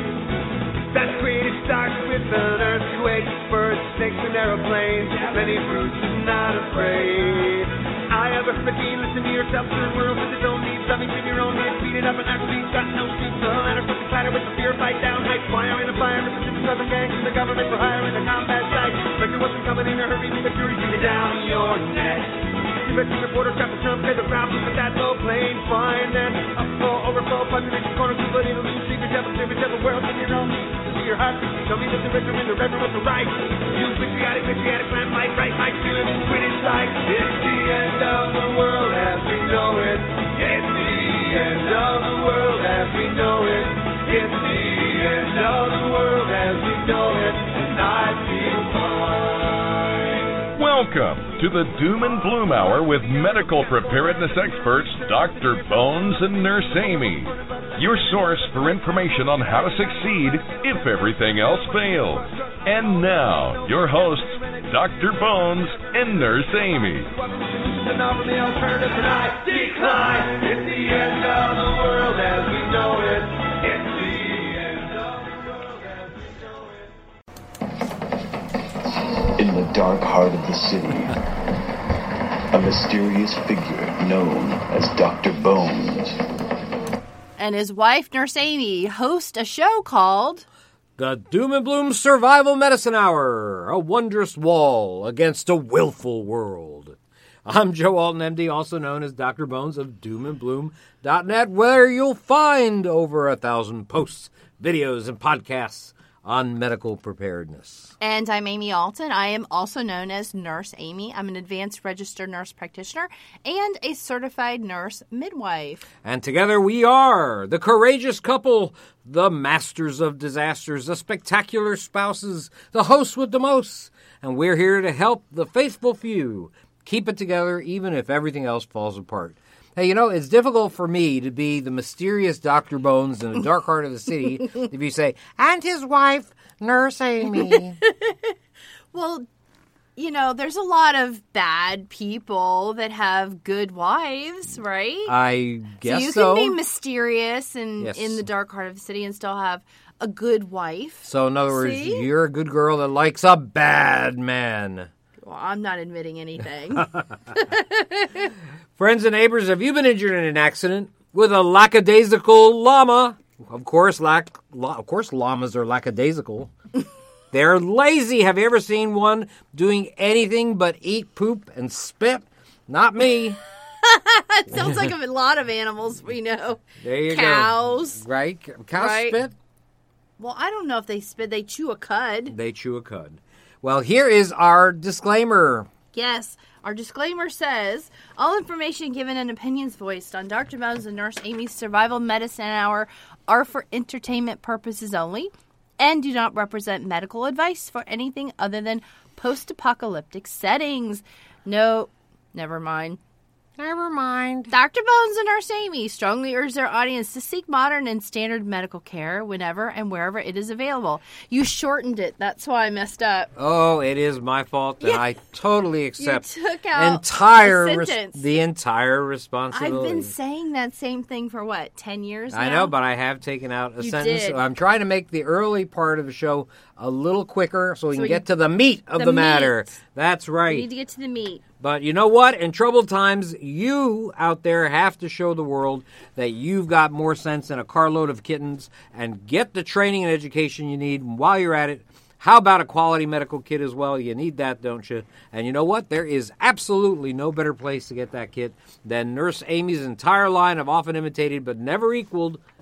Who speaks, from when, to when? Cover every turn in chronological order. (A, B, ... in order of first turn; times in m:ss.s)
0:00.9-0:49.8 A
0:50.6-1:07.1 B
1:07.4-1:16.0 A
1:19.4-1:21.2 C
1:22.5-1:26.3 C
1:27.4-1:30.5 D
1:31.0-1:47.9 E
1:48.0-1:55.9 D
1:56.0-2:17.8 E
2:17.3-2:18.4 D
2:18.9-2:19.3 D
2:20.0-2:25.1 D
2:25.1-2:26.6 E
2:25.8-2:32.1 D
2:27.8-2:28.2 E
2:31.0-2:34.9 E
2:35.2-2:38.3 D
2:38.8-2:46.5 E
2:47.3-2:53.4 E
2:53.8-2:58.0 D
2:54.5-2:54.9 E
2:56.8-2:59.4 E
2:58.8-2:59.2 D
3:00.2-3:02.4 D
3:02.3-3:05.7 E
3:05.9-3:23.0 D
3:23.6-3:24.5 E
3:24.5-3:33.3 D
3:33.4-3:40.1 E
3:36.0-3:38.3 D
3:39.5-3:42.7 D
3:42.3-3:50.7 E
3:43.8-3:44.4 D
3:47.9-3:48.2 D
3:49.0-3:49.8 D
3:50.5-3:51.4 D
3:51.6-4:12.4 E